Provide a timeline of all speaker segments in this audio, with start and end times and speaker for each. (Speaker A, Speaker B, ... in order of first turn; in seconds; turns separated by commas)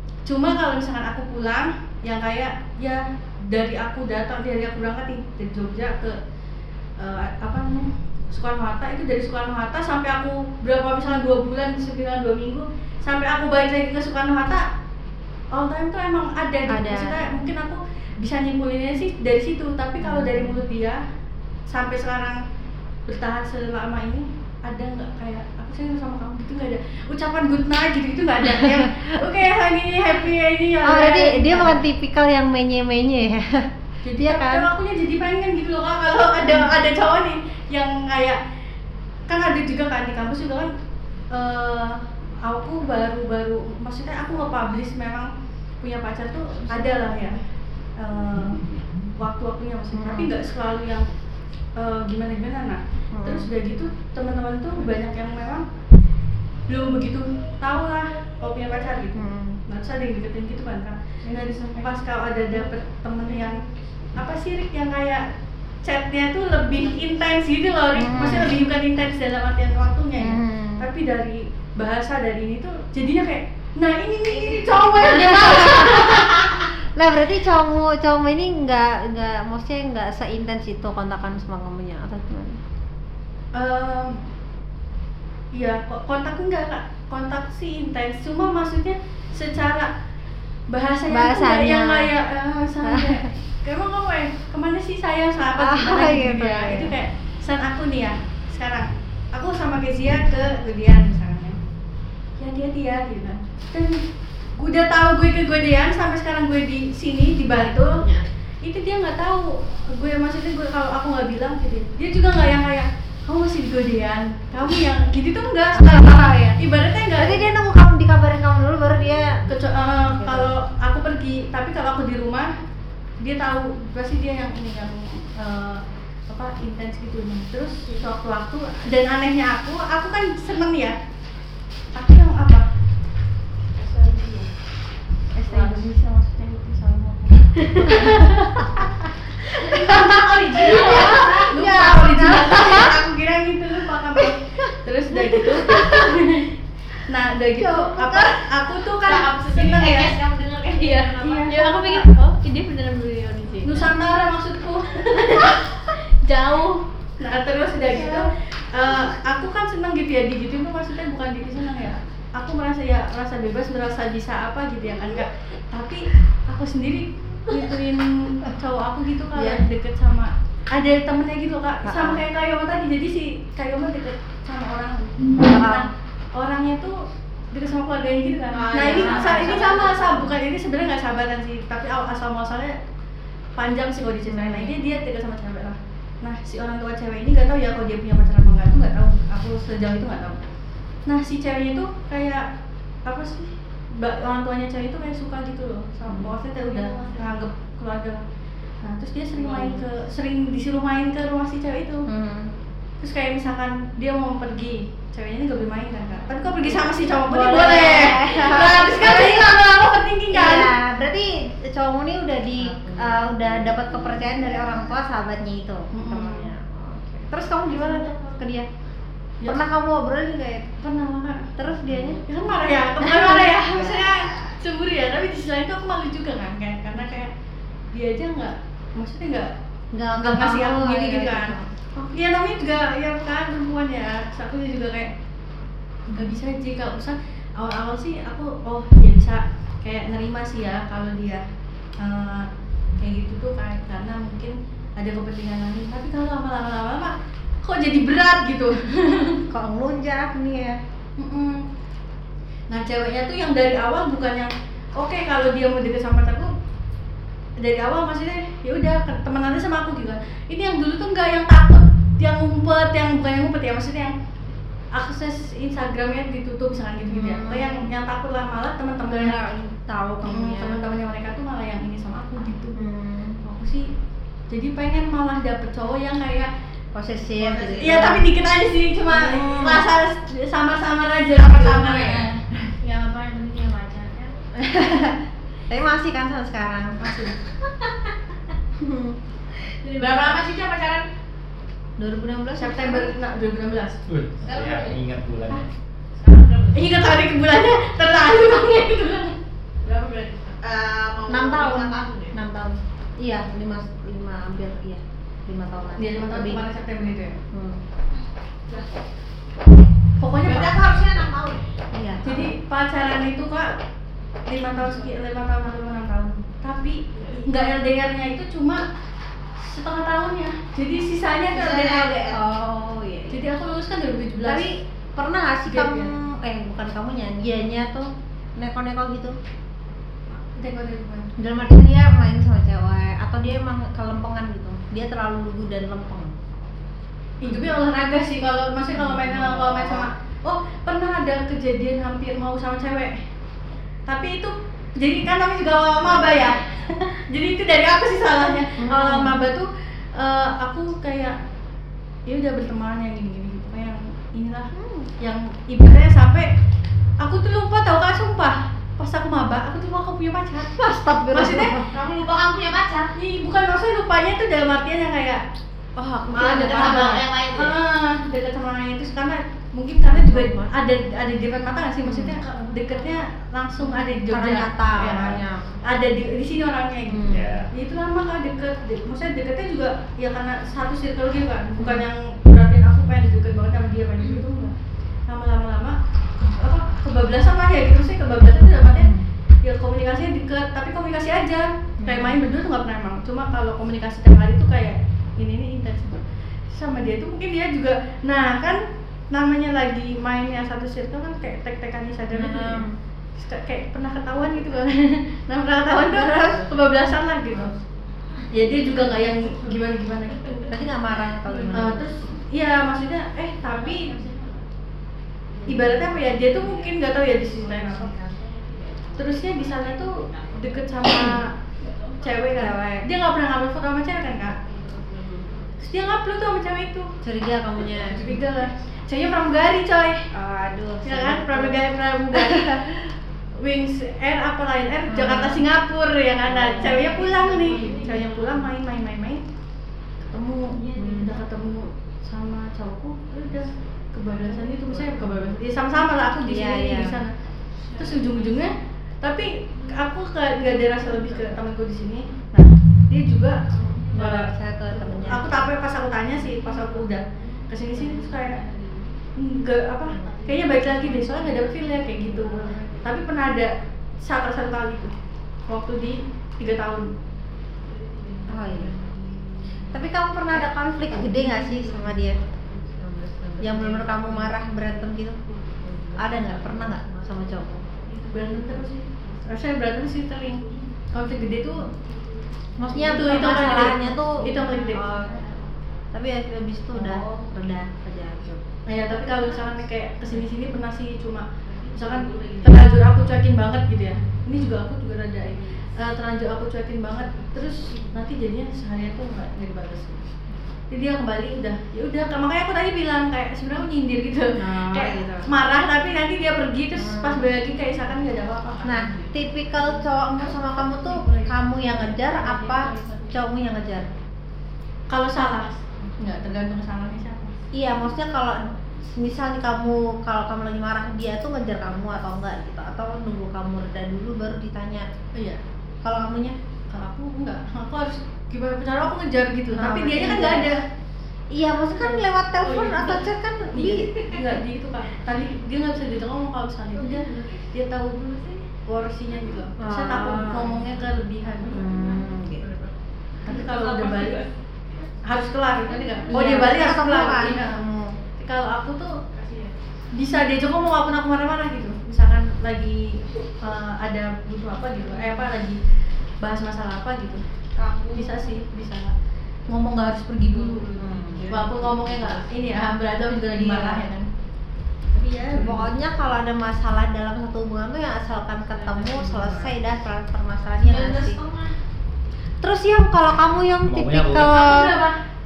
Speaker A: 0.2-6.2, Speaker A: 7.0-14.6, Speaker A: 15.5-21.0, Speaker B: 16.7-17.2, Speaker B: 20.0-20.6, Speaker A: 21.7-22.4, Speaker A: 23.1-31.8, Speaker B: 28.4-29.0, Speaker B: 30.8-33.7, Speaker A: 34.0-38.4, Speaker B: 34.2-34.7, Speaker B: 36.4-36.7, Speaker A: 39.3-40.7, Speaker A: 41.3-45.3, Speaker A: 45.8-47.4, Speaker B: 46.7-47.0, Speaker A: 48.0-48.6, Speaker A: 49.1-51.1, Speaker B: 49.9-50.3, Speaker A: 51.8-55.6, Speaker B: 53.1-53.5, Speaker A: 56.7-63.6, Speaker B: 59.1-59.6, Speaker A: 64.1-65.2, Speaker A: 65.8-76.7, Speaker B: 67.9-68.6, Speaker B: 70.2-70.9, Speaker B: 75.0-82.6, Speaker A: 83.5-84.2, Speaker A: 85.5-89.9, Speaker A: 90.7-101.6, Speaker B: 91.1-92.1, Speaker B: 92.8-93.3, Speaker B: 95.6-96.9, Speaker A: 102.4-104.0, Speaker A: 104.6-108.0, Speaker C: 108.0-108.3, Speaker A: 108.6-116.0, Speaker B: 115.7-116.6, Speaker A: 116.6-117.5, Speaker B: 117.1-119.4, Speaker A: 119.5-122.5, Speaker B: 120.0-120.5, Speaker A: 123.2-131.0, Speaker A: 131.9-132.7, Speaker A: 133.8-134.5, Speaker A: 135.3-138.9, Speaker B: 135.5-135.8, Speaker D: 137.8-138.3, Speaker A: 139.4-150.1, Speaker B: 139.6-143.0, Speaker C: 140.0-141.4, Speaker B: 145.4-146.0, Speaker B: 147.5-148.4, Speaker C: 149.0-151.6, Speaker D: 150.8-153.9, Speaker A: 151.2-152.1, Speaker A: 153.6-177.0, Speaker B: 157.9-158.3, Speaker B: 169.3-169.6, Speaker B: 171.8-172.2, Speaker B: 175.4-175.9, Speaker A: 177.5-182.8, Speaker C: 178.5-180.2, Speaker B: 178.8-179.5, Speaker A: 183.6-190.4, Speaker B: 184.2-184.8, Speaker A: 191.1-192.4, Speaker A: 193.0-198.2, Speaker B: 196.1-196.3, Speaker D: 196.7-197.2, Speaker A: 198.8-202.1, Speaker B: 199.6-199.8, Speaker B: 202.1-202.5, Speaker A: 203.0-210.7, Speaker B: 206.6-209.6, Speaker C: 207.6-208.1, Speaker B: 210.3-218.7, Speaker D: 212.7-213.9, Speaker C: 213.4-214.4, Speaker A: 215.9-216.5, Speaker B: 219.4-220.8, Speaker A: 220.8-221.5, Speaker B: 221.5-222.2, Speaker A: 222.2-227.3, Speaker B: 223.0-224.2, Speaker A: 227.9-229.5, Speaker B: 229.9-232.1, Speaker A: 230.2-231.5, Speaker A: 232.1-235.1, Speaker A: 236.1-241.4, Speaker A: 242.0-249.4, Speaker B: 249.5-250.8, Speaker A: 251.2-251.6, Speaker A: 252.7-256.5, Speaker A: 257.6-264.1, Speaker A: 264.9-269.4, Speaker B: 267.0-267.9, Speaker B: 269.1-270.8, Speaker A: 270.2-272.8, Speaker B: 272.7-273.4, Speaker A: 273.4-273.9, Speaker A: 274.5-276.5, Speaker B: 276.9-278.3, Speaker C: 277.4-278.2, Speaker A: 277.8-282.4, Speaker B: 279.1-279.9, Speaker C: 281.3-282.3, Speaker D: 282.8-284.3, Speaker B: 284.6-285.2, Speaker B: 285.7-287.2, Speaker A: 287.0-287.3, Speaker B: 288.8-289.2, Speaker C: 290.0-291.1, Speaker B: 292.0-293.1, Speaker A: 292.6-294.0, Speaker E: 294.1-295.7, Speaker C: 294.4-294.9, Speaker C: 296.2-297.0, Speaker A: 296.7-299.4, Speaker C: 299.8-302.3, Speaker B: 301.3-306.6, Speaker A: 306.0-307.4, Speaker B: 307.5-307.8, Speaker A: 310.2-310.8, Speaker C: 310.4-311.6, Speaker B: 311.9-312.5, Speaker A: 312.2-313.8, Speaker A: 314.4-318.8, Speaker C: 317.2-317.4, Speaker A: 319.6-322.4, Speaker C: 321.5-322.4, Speaker B: 322.3-323.4, Speaker A: 323.3-324.7, Speaker B: 324.4-329.4, Speaker A: 325.7-326.1, Speaker A: 330.3-331.3, Speaker B: 331.4-336.6, Speaker A: 337.4-343.2, Speaker B: 337.4-337.8, Speaker B: 338.9-339.9, Speaker A: 344.1-351.4, Speaker B: 348.8-349.4, Speaker A: 352.2-356.5, Speaker B: 354.7-355.1, Speaker A: 357.2-361.8, Speaker B: 360.8-361.9, Speaker C: 361.9-363.1, Speaker A: 363.2-365.4, Speaker B: 366.0-367.1, Speaker A: 366.3-384.7, Speaker C: 366.3-367.8, Speaker B: 370.1-370.7, Speaker B: 372.1-372.4, Speaker B: 373.8-375.7, Speaker B: 377.1-377.5, Speaker E: 377.3-377.7, Speaker B: 381.8-382.0, Speaker A: 385.3-389.1, Speaker B: 388.9-389.2, Speaker A: 389.6-396.2, Speaker B: 392.0-392.4, Speaker A: 396.7-402.8, Speaker B: 402.3-402.9, Speaker A: 403.4-407.7, Speaker B: 406.1-406.6, Speaker C: 406.4-406.8, Speaker C: 407.6-407.9, Speaker C: 408.4-409.3, Speaker A: 408.5-410.7, Speaker D: 408.8-409.2, Speaker B: 410.7-412.0, Speaker A: 411.7-414.1, Speaker D: 413.7-414.6, Speaker C: 413.7-414.3, Speaker C: 415.5-422.3, Speaker A: 415.6-418.1, Speaker A: 419.2-421.5, Speaker B: 421.1-421.4, Speaker A: 422.2-424.6, Speaker B: 422.5-423.1, Speaker C: 424.4-426.2, Speaker A: 425.8-427.1, Speaker B: 427.2-428.2, Speaker A: 428.0-430.2, Speaker B: 430.3-432.8, Speaker A: 431.0-432.9, Speaker A: 433.6-439.4, Speaker B: 435.1-435.6, Speaker C: 436.5-436.9, Speaker D: 436.6-438.7, Speaker A: 440.2-447.3, Speaker D: 440.8-441.3, Speaker B: 440.9-441.4, Speaker D: 444.3-445.3, Speaker B: 446.4-447.2, Speaker D: 447.9-448.6, Speaker A: 448.0-454.5, Speaker D: 450.7-451.5, Speaker B: 454.1-455.8, Speaker A: 455.1-458.6, Speaker D: 456.4-457.1, Speaker D: 457.9-459.0, Speaker A: 459.4-465.1, Speaker C: 460.2-460.6, Speaker D: 460.3-463.0, Speaker C: 462.6-462.9, Speaker A: 465.7-467.1, Speaker C: 468.1-469.2, Speaker D: 468.2-468.7, Speaker B: 468.5-468.9, Speaker B: 469.9-472.4, Speaker D: 471.5-472.1, Speaker C: 472.2-473.8, Speaker D: 473.2-474.5, Speaker B: 473.6-475.4, Speaker C: 475.8-476.1, Speaker D: 476.0-479.4, Speaker B: 476.2-477.8, Speaker A: 478.3-481.9, Speaker D: 480.6-480.9, Speaker B: 482.8-485.5, Speaker C: 482.9-483.9, Speaker A: 483.0-485.1, Speaker D: 484.7-485.6, Speaker C: 484.7-485.6, Speaker B: 486.1-488.6, Speaker C: 486.9-487.5, Speaker A: 488.9-500.2, Speaker D: 489.1-489.7, Speaker C: 491.6-493.2, Speaker C: 497.9-498.1, Speaker A: 500.9-509.1, Speaker B: 504.6-505.5, Speaker B: 506.9-507.5, Speaker B: 508.8-514.1, Speaker C: 511.1-513.3, Speaker A: 515.1-517.5, Speaker B: 517.7-525.1, Speaker B: 526.0-526.6, Speaker A: 526.9-530.8, Speaker B: 529.7-530.8, Speaker B: 531.5-534.1, Speaker A: 531.9-541.9, Speaker C: 537.0-537.6, Speaker C: 539.3-539.7, Speaker B: 539.8-540.7, Speaker C: 541.7-542.9, Speaker B: 541.7-542.6, Speaker A: 543.4-544.4, Speaker C: 543.5-545.0, Speaker A: 545.2-547.8, Speaker C: 545.7-547.7, Speaker B: 546.3-548.2, Speaker A: 548.4-549.1, Speaker C: 549.3-549.7, Speaker A: 550.1-555.8, Speaker A: 556.4-557.4, Speaker C: 557.8-558.6, Speaker A: 558.1-559.1, Speaker A: 559.7-560.9, Speaker C: 560.4-562.9, Speaker B: 561.0-561.5, Speaker A: 561.5-564.3, Speaker B: 563.5-564.1, Speaker A: 565.1-565.9, Speaker B: 565.5-571.4, Speaker C: 568.8-569.7, Speaker C: 570.8-571.7, Speaker B: 572.6-575.0, Speaker E: 573.8-574.6, Speaker A: 574.4-575.2